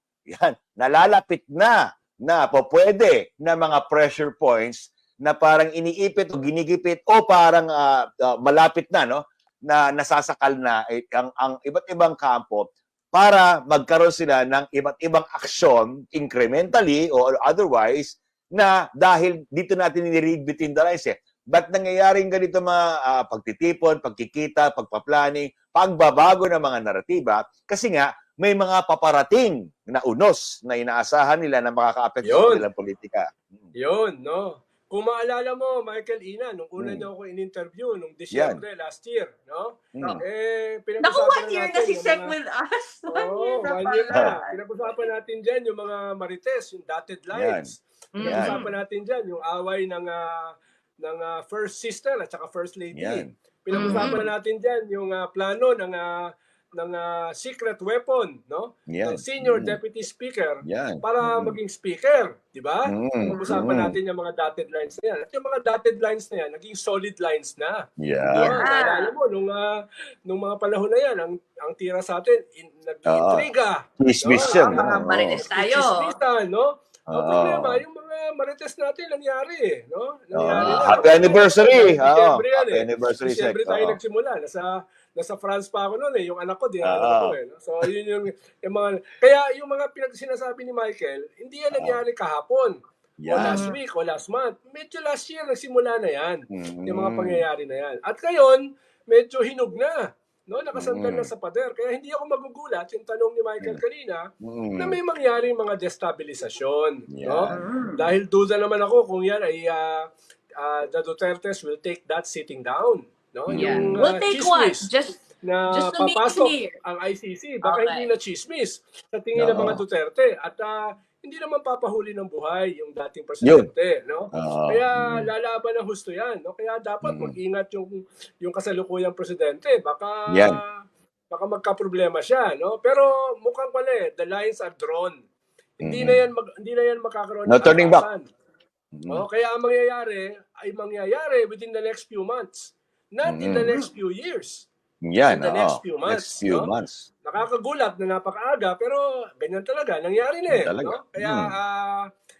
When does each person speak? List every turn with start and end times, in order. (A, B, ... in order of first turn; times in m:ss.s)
0:00.3-0:33.7 A
0:32.2-0:32.6 B
0:33.8-0:42.4 B
0:36.8-0:37.1 A
0:38.3-0:38.6 A
0:40.0-0:40.2 A
0:41.0-0:44.9 C
0:43.1-1:54.9 B
0:47.3-0:48.6 A
0:48.2-0:48.8 C
0:52.9-0:53.3 A
0:53.7-0:54.3 C
0:53.8-0:54.2 A
0:58.9-0:59.8 A
1:00.6-1:01.6 A
1:02.9-1:04.0 A
1:08.0-1:08.7 A
1:08.4-1:09.1 C
1:13.1-1:13.5 A
1:14.0-1:15.4 A
1:14.4-1:16.1 C
1:17.1-1:17.8 A
1:20.3-1:24.0 A
1:20.5-1:21.3 C
1:26.8-1:27.4 A
1:31.7-1:32.0 A
1:33.2-1:33.7 A
1:33.4-1:33.8 C
1:36.5-1:37.4 A
1:40.8-1:41.3 A
1:44.4-1:45.0 A
1:47.1-1:47.6 A
1:47.5-1:48.1 C
1:53.5-1:54.0 A
1:53.5-1:56.8 C
1:55.4-2:10.7 B
1:57.6-1:58.1 C
1:59.4-1:59.8 A
2:03.4-2:03.7 A
2:04.3-2:05.3 A
2:07.0-2:07.4 A
2:10.3-2:10.6 A
2:11.3-2:15.2 B
2:15.8-2:18.3 B
2:15.8-2:16.2 A
2:17.5-2:18.1 A
2:18.9-2:19.2 A
2:19.1-2:24.7 B
2:23.2-2:23.7 A
2:25.0-2:27.1 A
2:25.3-2:26.7 B
2:27.2-2:32.1 B
2:30.5-2:31.6 A